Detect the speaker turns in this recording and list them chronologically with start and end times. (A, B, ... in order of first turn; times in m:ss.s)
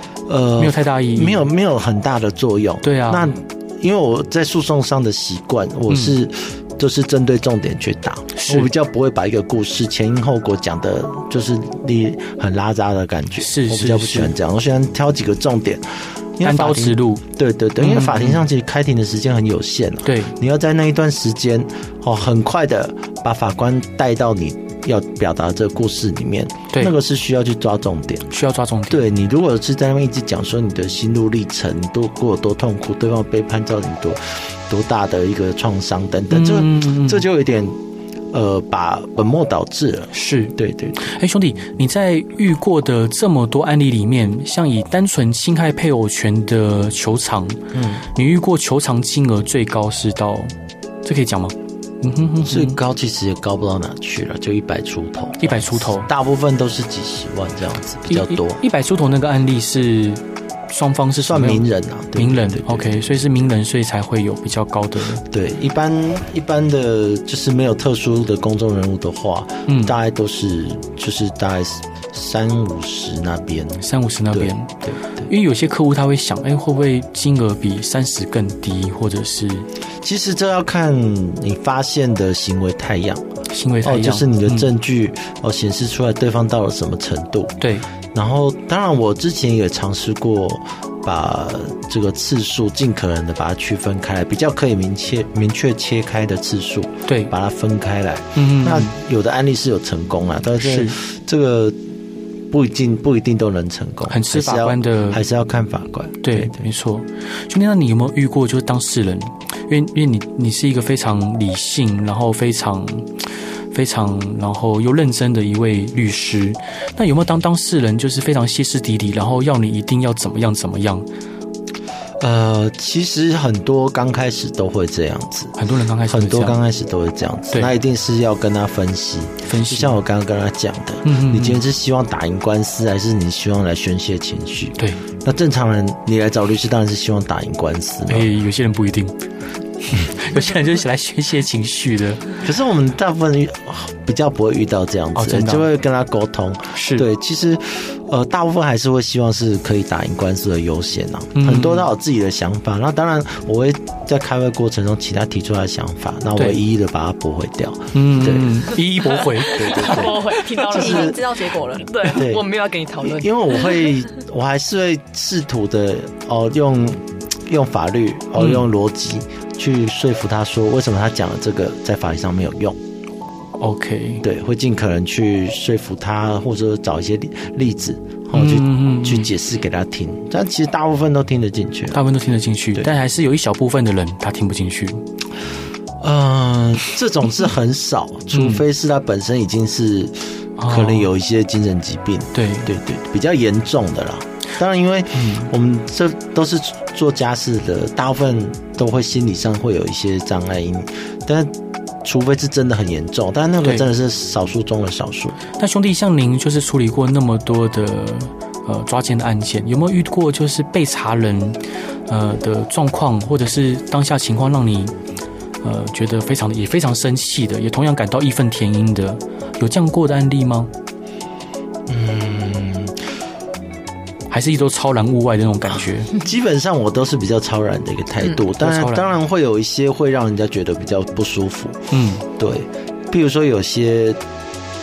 0:00.3-0:28.3 A
0:00.6-0:01.4 B
0:02.8-0:03.3 B
0:05.9-0:06.2 B
0:08.3-0:08.7 B
0:13.4-0:14.3 B
0:16.4-0:17.2 B
0:17.8-0:18.4 B
0:20.0-0:20.4 B
0:28.3-0:29.0 B
0:28.9-0:37.8 A
0:36.3-0:37.2 B
0:38.3-0:41.0 A
0:40.1-0:47.6 B
0:47.7-0:48.1 A
0:48.1-0:50.5 B
0:51.0-0:52.8 B
0:52.5-0:58.6 A
0:55.4-0:56.1 B
0:58.1-1:01.6 B
1:01.2-1:02.9 A
1:02.2-1:05.2 B
1:05.3-1:15.3 A
1:09.7-1:10.0 B
1:13.8-1:14.7 B
1:15.3-1:19.7 B
1:20.0-1:23.3 A
1:23.5-1:24.7 B
1:23.8-1:27.6 A
1:27.6-1:27.9 B
1:28.1-1:41.8 A
1:37.1-1:37.3 B
1:38.4-1:38.9 B
1:40.6-1:41.0 B
1:42.5-1:46.6 A
1:44.1-1:45.2 B
1:46.2-1:53.1 B
1:53.7-2:01.1 B
2:02.2-2:18.3 A
2:05.6-2:06.6 B
2:09.5-2:10.0 B
2:11.0-2:11.6 B
2:14.8-2:15.0 B
2:18.1-2:19.2 B
2:19.8-2:22.3 B
2:22.4-2:38.6 A
2:25.2-2:25.7 B
2:26.7-2:27.1 B
2:31.4-2:31.9 B
2:36.4-2:36.6 B
2:37.9-2:40.1 B
2:39.2-2:41.2 C
2:39.4-2:41.2 A
2:39.8-2:41.9 D
2:41.8-2:43.8 C
2:42.1-2:42.5 A
2:43.0-2:52.8 A
2:48.4-2:48.6 B
2:53.6-2:54.2 B
2:54.2-3:02.0 A
2:58.3-2:59.3 B
3:01.9-3:05.0 B
3:06.0-3:25.4 A
3:08.3-3:08.6 B
3:10.6-3:11.1 B
3:12.3-3:12.7 B
3:15.1-3:15.5 B
3:25.6-3:34.9 B
3:35.6-3:40.7 B
3:41.9-3:43.0 A
3:44.3-3:46.1 B
3:46.1-3:54.2 A
3:48.6-3:49.1 B
3:51.9-3:52.2 B